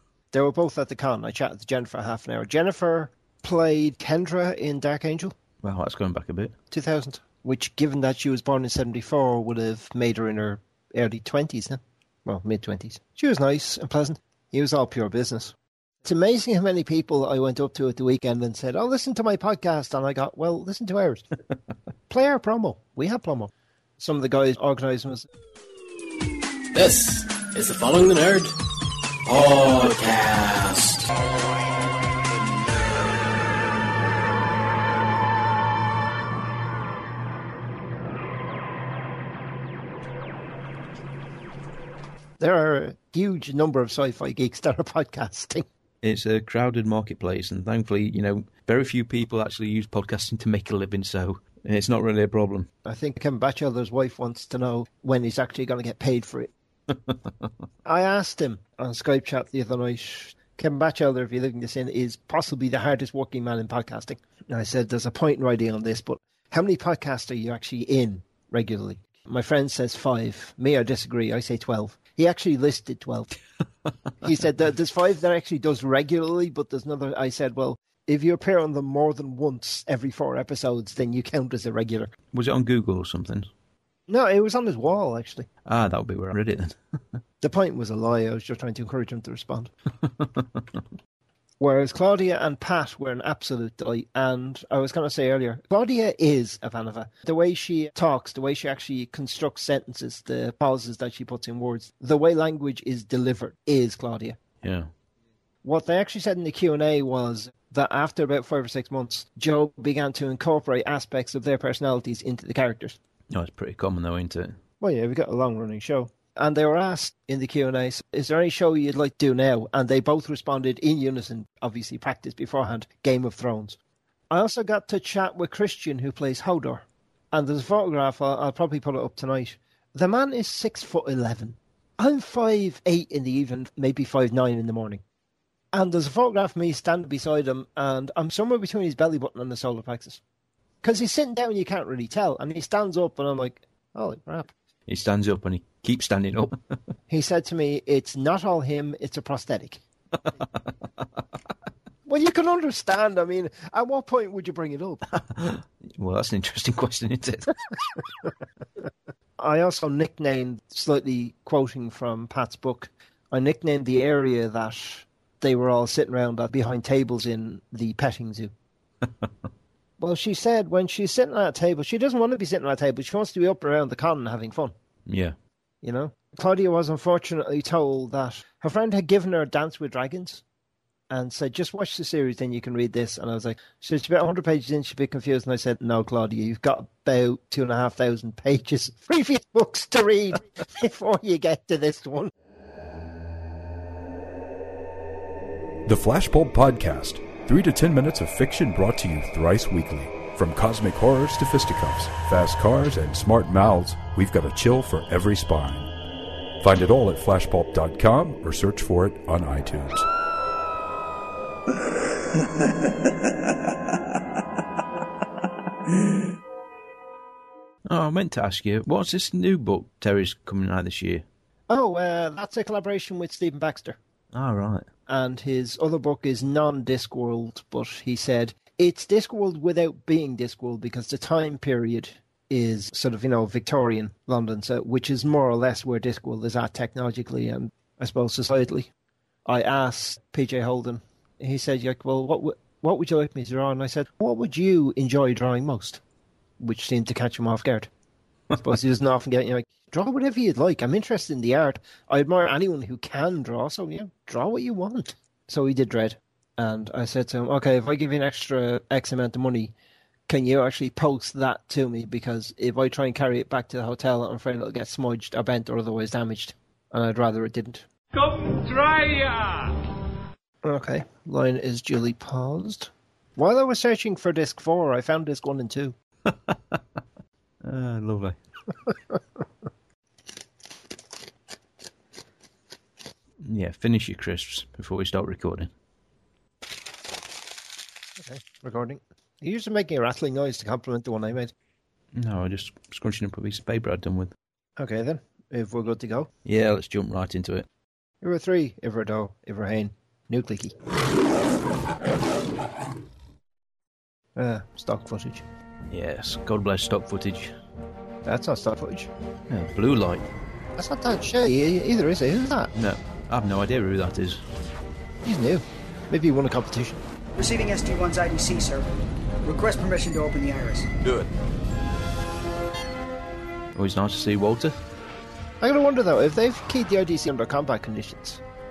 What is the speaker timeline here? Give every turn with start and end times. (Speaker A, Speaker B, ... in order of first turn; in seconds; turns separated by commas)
Speaker A: 0.3-5.3, Speaker B: 5.6-6.5, Speaker A: 6.7-21.3, Speaker A: 22.1-25.3, Speaker C: 26.7-28.6, Speaker C: 29.2-31.1, Speaker A: 42.4-45.6, Speaker B: 46.0-52.7, Speaker A: 52.9-56.5, Speaker A: 57.9-73.3, Speaker A: 74.2-82.1, Speaker B: 82.3-83.5, Speaker A: 84.1-85.5, Speaker B: 85.7-87.2, Speaker A: 87.4-89.7, Speaker B: 90.2-90.6, Speaker A: 91.6-104.4, Speaker B: 104.6-104.9, Speaker A: 105.6-113.0, Speaker B: 113.3-114.6, Speaker A: 114.8-123.8, Speaker A: 124.3-135.0, Speaker A: 135.7-140.2, Speaker A: 140.8-144.5, Speaker B: 144.9-146.6, Speaker A: 147.1-149.8, Speaker A: 152.1-155.0, Speaker B: 155.2-157.5, Speaker A: 159.4-168.5, Speaker A: 170.0-174.7, Speaker B: 175.1-175.4, Speaker A: 175.8-180.4, Speaker A: 181.1-192.3, Speaker D: 195.9-205.9, Speaker D: 206.6-210.1, Speaker B: 217.9-221.2, Speaker A: 221.7-224.0, Speaker B: 224.3-224.8, Speaker A: 225.1-238.9, Speaker A: 239.5-246.0, Speaker A: 246.6-247.9, Speaker A: 248.6-259.7, Speaker A: 260.3-267.9, Speaker A: 270.6-275.9, Speaker B: 276.3-276.8, Speaker B: 277.6-278.4, Speaker B: 283.4-285.7, Speaker A: 288.2-291.5, Speaker B: 292.1-294.3, Speaker A: 294.8-296.3, Speaker B: 296.4-297.7, Speaker A: 298.2-300.7, Speaker A: 304.4-305.5, Speaker B: 305.9-307.5, Speaker A: 308.2-309.1, Speaker B: 309.5-310.2, Speaker A: 310.8-312.7, Speaker B: 312.8-314.4, Speaker A: 315.2-317.0, Speaker E: 317.4-320.9, Speaker B: 323.8-324.8, Speaker A: 325.6-328.4